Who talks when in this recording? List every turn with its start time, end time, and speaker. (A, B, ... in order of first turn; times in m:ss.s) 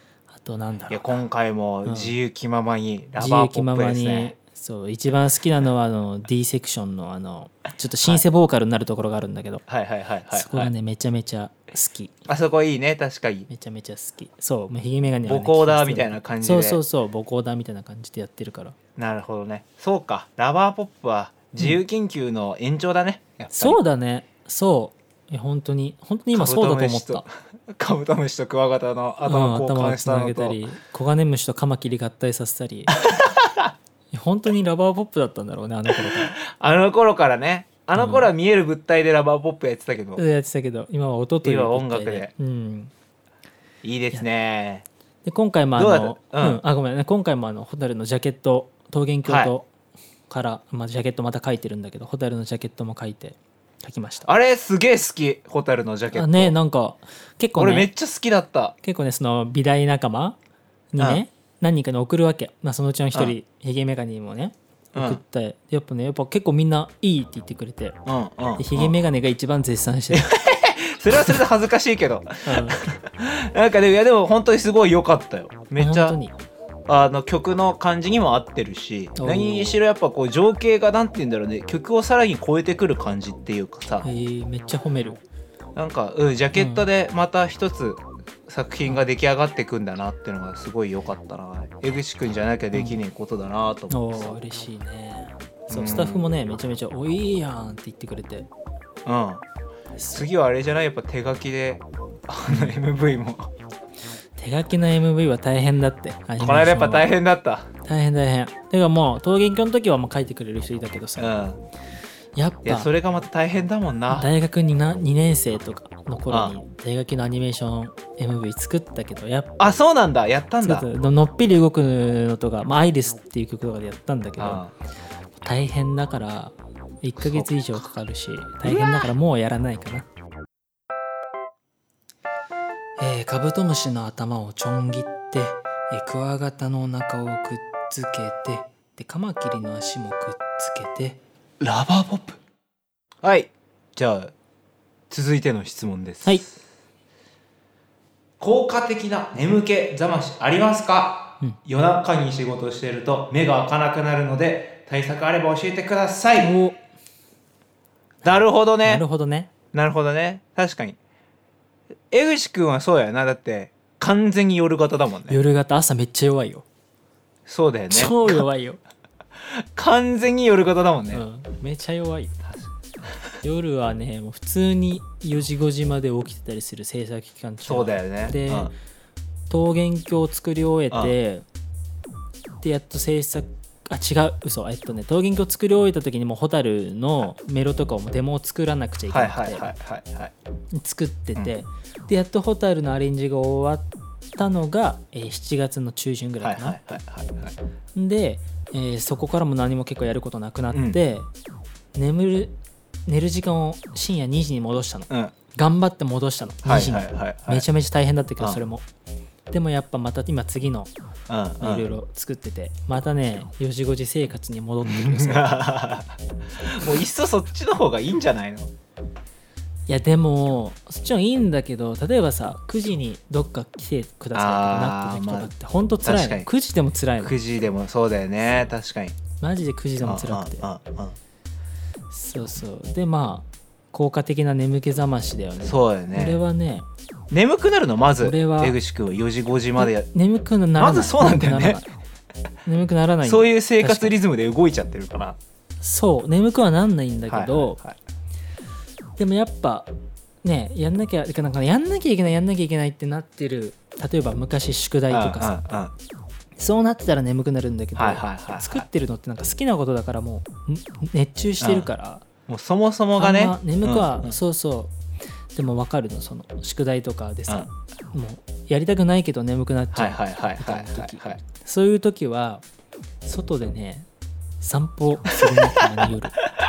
0:00.3-0:01.2 A
0:00.9-0:04.4 B
0:01.8-0:02.1 A
0:03.2-0:09.6 A
0:09.7-0:10.7 B
0:10.3-0:12.1 A
0:12.3-0:13.5 B
0:13.5-0:18.8 A
0:15.3-0:16.8 B
0:19.0-0:23.8 B
0:23.5-0:27.2 A
0:26.3-0:30.6 B
0:29.2-0:33.0 A
0:33.0-0:33.7 B
0:34.1-0:36.4 A
0:36.1-0:40.2 B
0:38.0-0:38.3 A
0:40.2-0:42.9 A
0:41.4-0:42.3 B
0:43.8-0:44.8 B
0:45.2-0:49.7 A
0:45.8-0:46.6 B
0:49.3-0:49.5 B
0:50.3-0:54.3 A
0:54.3-0:56.6 B
0:56.1-0:57.9 A
0:57.6-0:58.8 B
0:58.8-1:00.4 A
1:00.9-1:08.0 A
1:04.9-1:05.2 B
1:08.1-1:09.0 B
1:08.6-1:10.3 A
1:10.1-1:16.2 B
1:12.4-1:12.8 A
1:15.8-1:16.4 A
1:16.9-1:24.1 B
1:19.2-1:19.8 A
1:24.0-1:25.2 A
1:25.8-1:34.4 B
1:26.6-1:26.8 A
1:33.9-1:38.5 A
1:35.7-1:36.2 B
1:39.0-1:39.4 B
1:40.0-1:40.2 A
1:40.1-1:43.5 B
1:44.4-1:47.1 A
1:46.4-1:47.7 B
1:47.8-1:51.4 A
1:51.2-1:51.6 B
1:52.4-1:52.9 A
1:52.6-1:54.3 B
1:54.1-1:59.7 A
1:56.3-1:56.6 B
1:59.6-2:00.9 B
2:00.6-2:04.6 A
2:04.4-2:04.7 B
2:05.4-2:10.1 A
2:07.2-2:07.5 B
2:08.6-2:09.1 B
2:13.0-2:21.2 A
2:21.6-2:22.4 B
2:23.2-2:24.3 B
2:25.1-2:26.6 B
2:28.4-2:36.5 B
2:36.4-2:36.8 A
2:38.2-2:39.0 B
2:38.8-2:39.5 A
2:39.7-2:41.0 B
2:42.1-2:45.4 B
2:45.3-2:46.6 A
2:47.5-2:48.4 B
2:47.9-2:48.8 A
2:49.5-2:51.2 B
2:51.1-2:52.3 A
2:53.4-2:58.7 A
2:57.7-2:58.7 B
2:59.5-3:01.4 A
3:02.6-3:09.7 A
3:09.1-3:10.3 B
3:10.7-3:16.8 A
3:16.4-3:17.6 B
3:18.0-3:21.3 A
3:20.7-3:21.0 B
3:22.0-3:22.6 A
3:23.1-3:28.9 A
3:26.6-3:27.7 B
3:29.5-3:30.9 A
3:31.3-3:31.9 B
3:31.6-3:35.6 A
3:34.8-3:38.7 B
3:39.9-3:47.4 A
3:44.3-3:45.5 B
3:46.0-3:46.5 B
3:47.2-3:49.2 B
3:49.4-3:50.7 A
3:50.0-3:51.2 B
3:52.1-3:56.9 A
3:55.6-3:56.4 B
3:57.3-4:00.1 B
3:58.2-3:58.8 A
3:59.8-4:01.9 A
4:00.8-4:01.8 B
4:02.7-4:04.2 A
4:03.2-4:05.4 B
4:05.8-4:07.8 A
4:07.3-4:08.0 B
4:09.2-4:09.9 A
4:10.4-4:15.6 A
4:15.1-4:15.9 B
4:16.6-4:22.2 A
4:18.0-4:18.9 B
4:21.6-4:21.9 B
4:22.5-4:24.4 B
4:23.2-4:24.9 A
4:25.5-4:32.6 A
4:29.9-4:31.4 B
4:33.2-4:34.1 A
4:34.6-4:36.4 A
4:35.5-4:36.1 B